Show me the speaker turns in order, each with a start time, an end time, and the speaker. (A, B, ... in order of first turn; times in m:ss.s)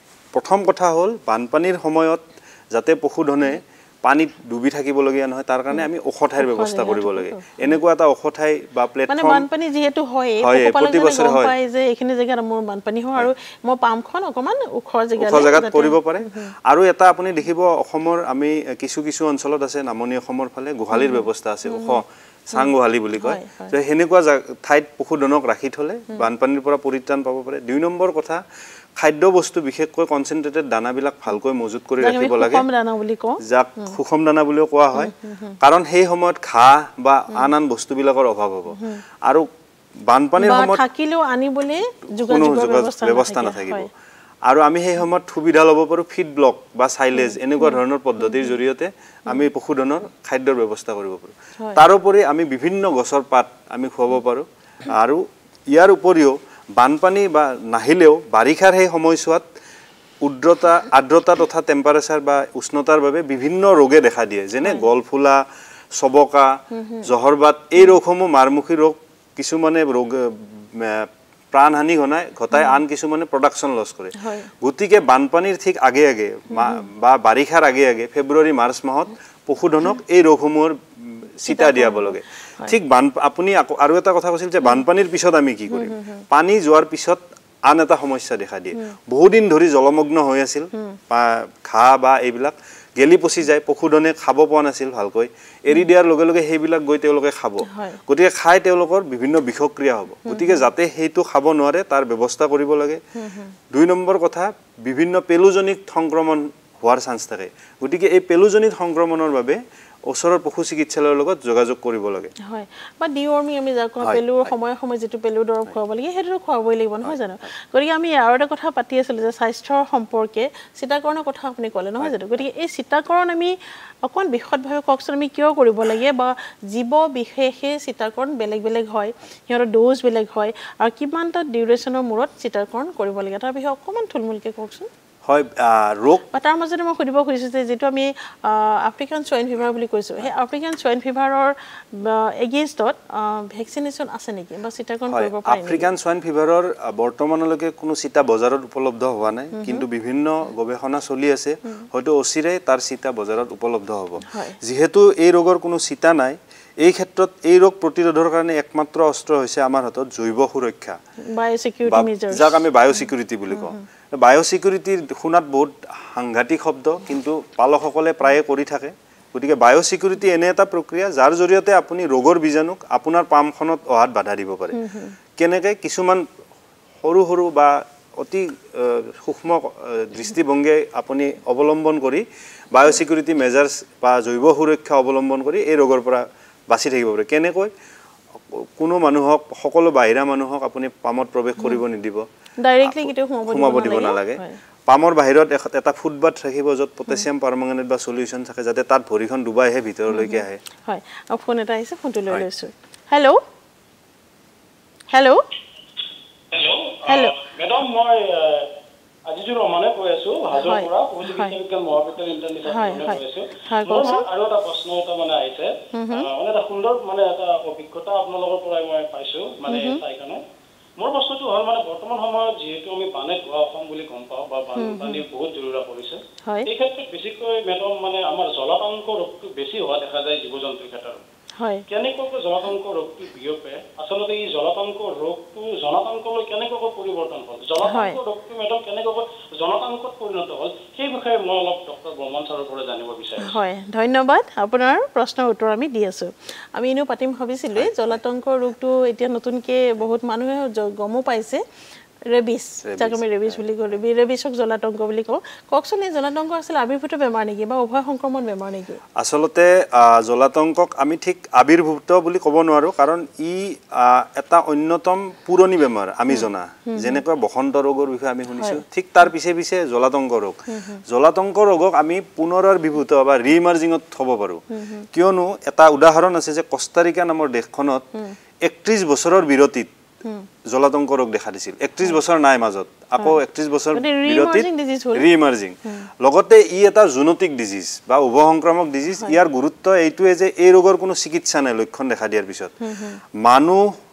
0:00.3-0:09.5 A
0:06.4-0:07.7 B
0:09.1-0:16.5 B
0:10.4-0:11.5 A
0:15.2-0:28.4 A
0:20.9-0:22.0 B
0:22.5-0:23.7 B
0:29.0-0:32.6 A
0:32.0-0:33.9 B
0:33.4-0:39.5 A
0:34.9-0:35.6 B
0:38.7-0:39.0 B
0:40.1-0:40.8 A
0:40.4-0:43.9 B
0:42.2-0:43.9 A
0:44.5-0:59.5 A
0:47.2-0:48.5 B
1:00.2-1:43.0 A
1:06.7-1:07.1 B
1:14.2-1:14.5 B
1:16.5-1:16.8 B
1:21.5-1:22.7 B
1:25.7-1:26.2 B
1:37.6-1:38.0 B
1:40.3-1:40.6 B
1:43.1-1:43.5 B
1:43.7-1:52.3 A
1:52.5-2:14.9 B
2:02.0-2:02.4 A
2:15.2-2:16.2 A
2:16.3-2:25.9 B
2:25.1-2:41.0 A
2:29.5-2:29.8 B
2:34.3-2:34.6 B
2:41.3-2:42.6 B
2:41.9-2:54.8 A
2:43.5-2:43.8 B
2:54.7-2:55.2 B
2:55.4-2:56.2 A
2:57.0-3:07.7 A
3:08.4-3:12.2 A
3:12.6-3:14.6 B
3:12.8-3:20.6 A
3:20.1-3:23.4 B
3:25.1-3:25.4 B
3:26.5-3:28.7 C
3:27.1-3:27.4 B
3:29.3-3:40.4 C
3:30.6-3:31.5 B
3:32.7-3:34.2 B
3:35.9-3:36.3 B
3:39.7-3:40.0 B
3:41.0-3:51.2 C
3:44.8-3:45.2 B
3:51.6-3:51.8 B
3:51.9-4:03.5 C
3:57.8-3:58.2 B
4:03.4-4:11.6 B
4:07.7-4:08.2 A
4:12.3-4:19.0 B
4:12.8-4:13.6 A
4:19.2-4:38.1 A
4:26.3-4:27.2 B
4:30.7-4:31.0 B
4:34.7-4:35.0 B
4:38.6-4:39.9 A
4:40.6-4:52.7 A
4:43.9-4:45.3 B
4:52.8-4:53.2 B
4:53.3-4:53.9 A